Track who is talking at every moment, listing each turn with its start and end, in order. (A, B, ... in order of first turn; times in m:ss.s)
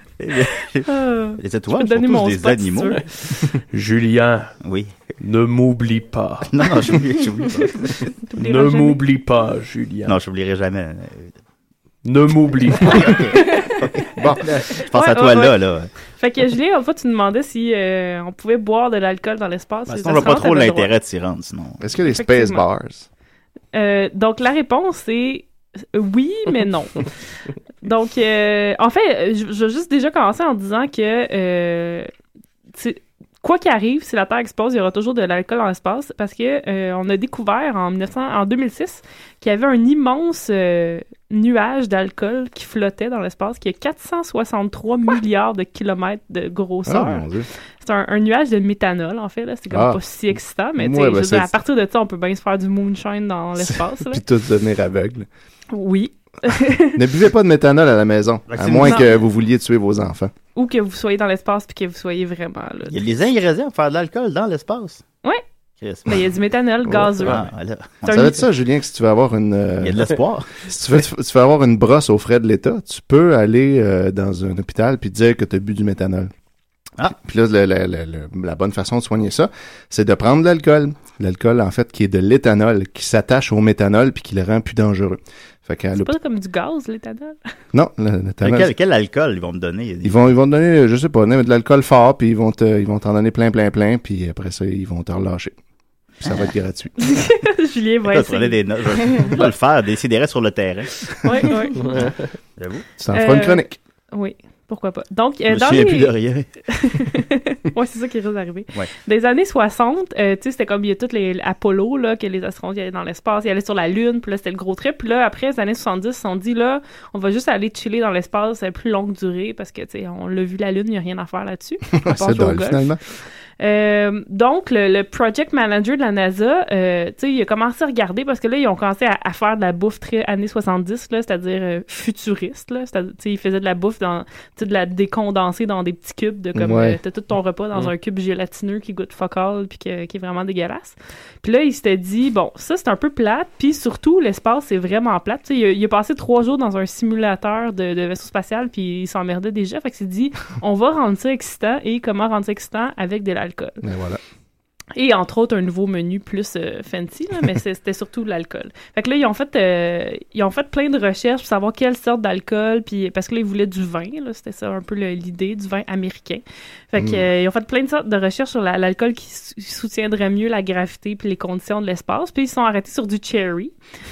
0:00.2-0:03.0 A
0:00.9-0:03.0 B
0:03.7-0:04.5 C
0:04.6-0:04.9 A
0:05.2-0:07.0 C
0:06.5-0:08.1 A
0:08.2-0:09.0 B
0:08.4-0:10.2 C
0:10.1-0:11.3 A
0:12.0-0:13.3 C
0:12.9-0:13.3 D
0:14.2-0:14.6 D
0:14.4-0:15.9 A
0:14.9-0:15.6 B
0:16.2-0:20.9 B
0:19.9-0:21.8 A
0:21.8-0:23.1 D
0:22.1-0:22.6 B
0:23.7-0:27.1 B
0:27.8-0:32.1 B
0:32.7-0:47.3 B
0:46.9-0:47.5 D
0:47.8-0:54.2 B
0:49.7-0:51.6 D
0:53.6-0:55.3 D
0:55.7-0:57.0 B
0:57.0-1:00.3 D
0:58.5-0:59.2 A
1:00.6-1:03.0 B
1:02.9-1:05.0 A
1:05.8-1:06.3 A
1:06.1-1:07.4 B
1:06.9-1:07.3 D
1:07.2-1:08.4 A
1:08.0-1:08.4 B
1:08.1-1:16.3 D
1:09.8-1:10.6 A
1:17.1-1:26.2 D
1:26.0-1:27.4 B
1:27.7-1:28.7 D
1:28.4-1:30.3 A
1:30.0-1:35.6 D
1:36.2-1:37.2 D
1:36.2-1:36.5 A
1:37.0-1:39.4 B
1:38.1-1:41.1 A
1:41.2-1:41.8 B
1:41.8-1:42.3 C
1:41.9-1:42.8 A
1:43.0-1:43.8 D
1:43.1-1:46.2 B
1:45.5-1:46.5 A
1:46.7-2:03.0 B
2:02.0-2:03.0 D
2:03.6-2:33.8 B
2:16.6-2:17.0 D
2:33.8-2:34.2 D
2:35.0-2:53.7 B
2:47.0-2:47.3 D